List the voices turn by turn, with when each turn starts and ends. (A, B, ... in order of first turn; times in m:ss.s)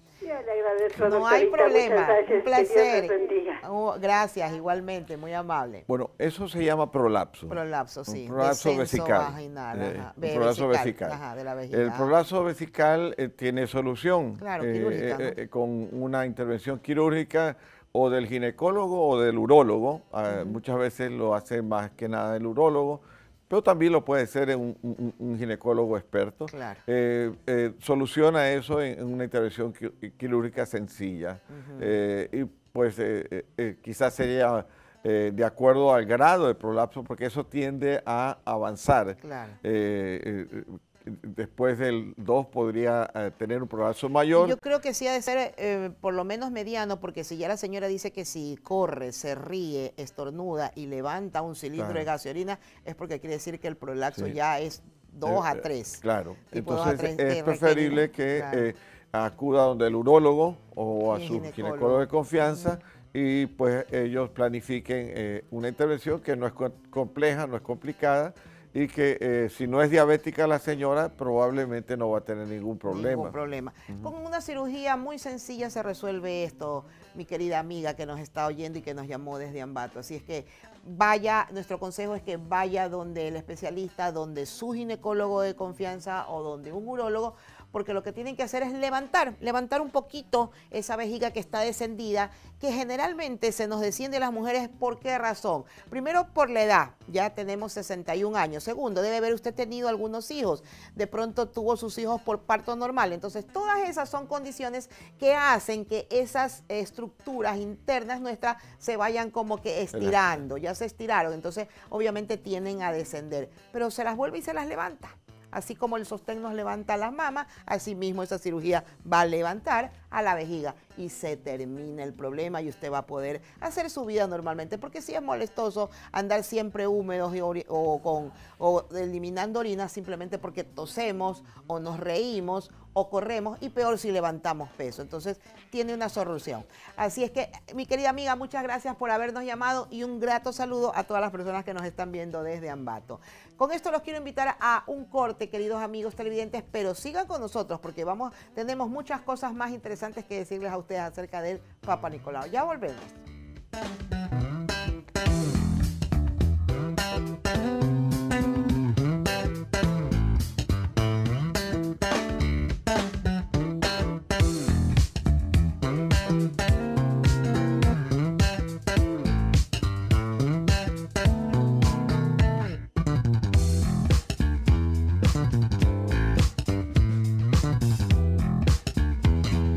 0:00.2-0:03.6 A
0:00.9-0:05.9 B
0:05.9-0:11.2 C
0:07.5-0:12.1 B
0:11.7-0:44.6 C
0:14.4-0:15.4 B
0:20.3-0:20.6 B
0:26.5-0:26.8 B
0:31.5-0:32.0 B
0:39.2-0:39.6 B
0:44.3-0:58.7 B
0:51.8-0:52.1 C
0:55.2-1:13.4 C
1:01.1-1:02.8 B
1:12.9-2:33.2 B
1:49.9-1:50.2 C